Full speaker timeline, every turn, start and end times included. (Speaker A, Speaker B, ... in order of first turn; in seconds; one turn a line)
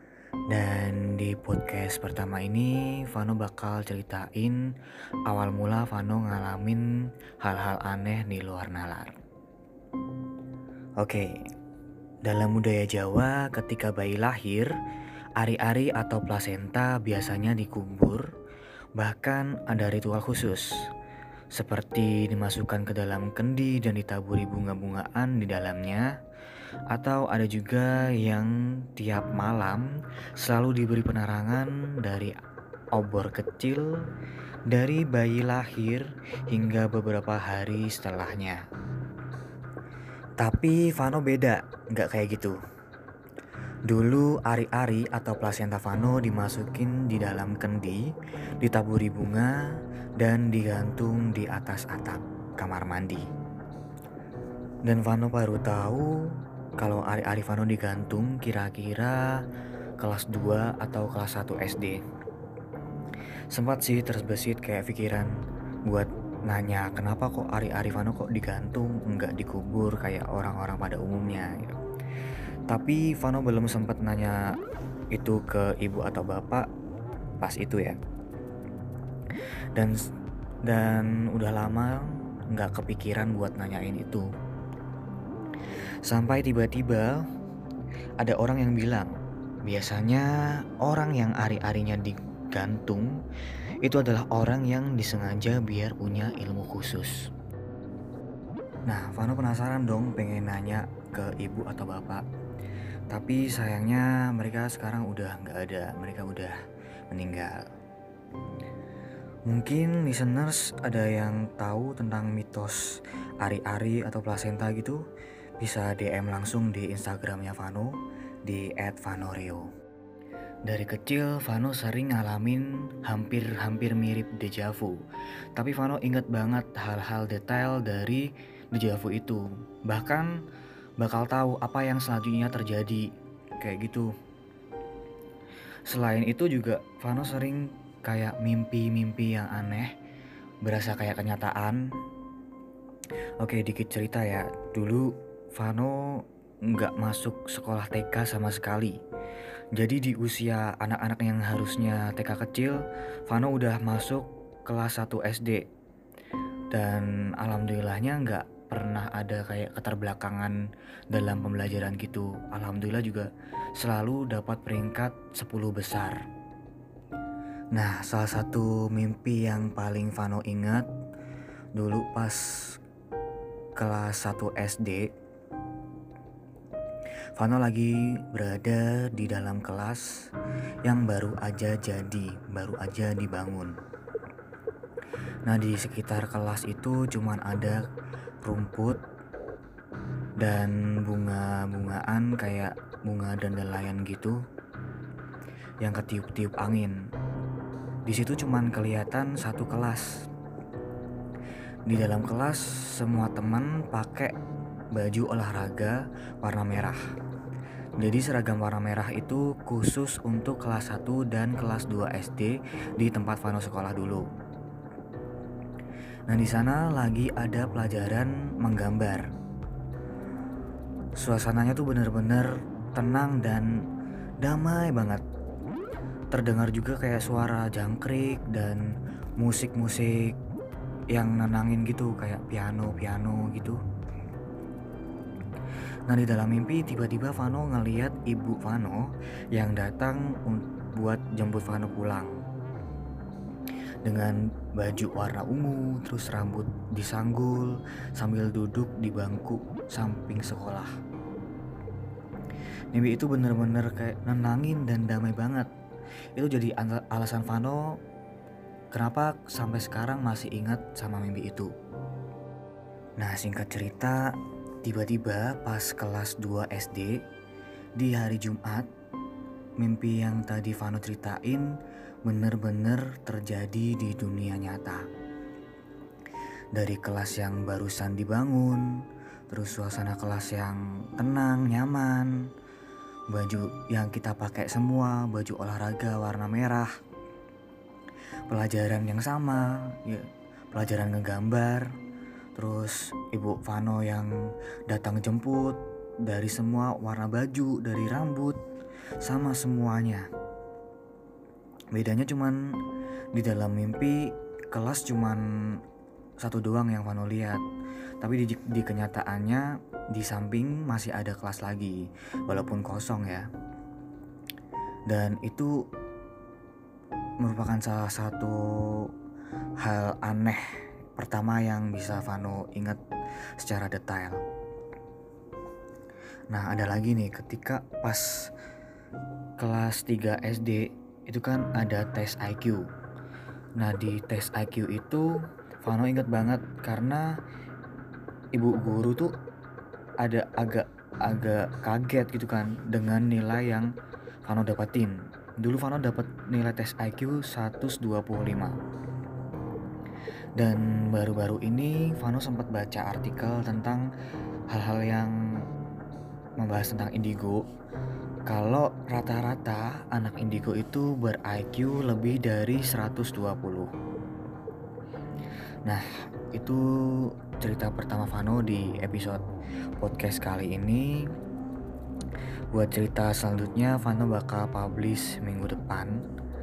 Speaker A: 0.5-4.7
Speaker A: 5.2-9.2
Speaker A: 11.0-11.4
Speaker A: 12.2-14.7
Speaker A: 15.3-18.3
Speaker A: 18.9-20.9
Speaker A: 21.5-26.1
Speaker A: 26.9-32.3
Speaker A: 32.9-34.0
Speaker A: 34.7-38.6
Speaker A: 40.4-42.6
Speaker A: 43.9-48.0
Speaker A: 48.6-53.3
Speaker A: 54.8-59.4
Speaker A: 60.0-62.0
Speaker A: 63.5-65.3
Speaker A: 65.8-71.8
Speaker A: 72.7-74.5
Speaker A: 75.1-76.7
Speaker A: 77.4-78.0
Speaker A: 79.7-80.1
Speaker A: 80.6-84.3
Speaker A: 86.0-87.2
Speaker A: 88.2-89.1
Speaker A: 89.6-93.2
Speaker A: 93.8-97.3
Speaker A: 98.9-102.2
Speaker A: 103.1-106.5
Speaker A: 107.1-107.6
Speaker A: 109.5-115.0
Speaker A: 115.6-119.7
Speaker A: 120.7-125.0
Speaker A: 125.5-130.4
Speaker A: 131.0-133.1
Speaker A: 133.6-134.1
Speaker A: 135.9-139.9
Speaker A: 140.6-141.8
Speaker A: 143.4-149.0
Speaker A: 149.7-155.7
Speaker A: 156.7-160.6
Speaker A: 161.1-166.2
Speaker A: 167.7-170.9
Speaker A: 171.7-172.8
Speaker A: 173.8-175.1
Speaker A: 177.3-180.2
Speaker A: 180.8-183.7
Speaker A: 185.4-187.8
Speaker A: 188.4-189.0
Speaker A: 190.4-194.4
Speaker A: 195.8-197.0
Speaker A: 198.1-200.2
Speaker A: 201.8-204.3
Speaker A: 204.9-207.0
Speaker A: 208.0-214.3
Speaker A: 216.3-219.3
Speaker A: 221.2-223.7
Speaker A: 224.4-225.2
Speaker A: 226.3-230.4
Speaker A: 231.1-233.8
Speaker A: 236.1-242.4
Speaker A: 244.0-250.9
Speaker A: 252.9-255.7
Speaker A: 256.4-257.9
Speaker A: 258.9-261.7
Speaker A: 263.2-267.2
Speaker A: 268.0-268.9
Speaker A: 269.8-271.7
Speaker A: 272.2-275.1
Speaker A: 276.7-282.4
Speaker A: 283.3-286.9
Speaker A: 288.5-291.9
Speaker A: 292.5-294.3
Speaker A: 294.9-298.6
Speaker A: 299.2-300.3
Speaker A: 301.9-302.6
Speaker A: 303.3-305.8
Speaker A: 306.4-307.6
Speaker A: 308.2-313.5
Speaker A: 315.1-315.7
Speaker A: 317.4-319.1
Speaker A: 319.8-323.0
Speaker A: 323.6-324.4
Speaker A: 326.5-328.5
Speaker A: 329.6-332.8
Speaker A: 333.8-337.4
Speaker A: 338.5-339.4
Speaker A: 340.2-343.9
Speaker A: 344.4-348.8
Speaker A: 350.6-354.1
Speaker A: 354.7-355.3
Speaker A: 356.6-357.6
Speaker A: 358.5-363.9
Speaker A: 365.9-369.4
Speaker A: 370.0-371.3
Speaker A: 372.7-376.2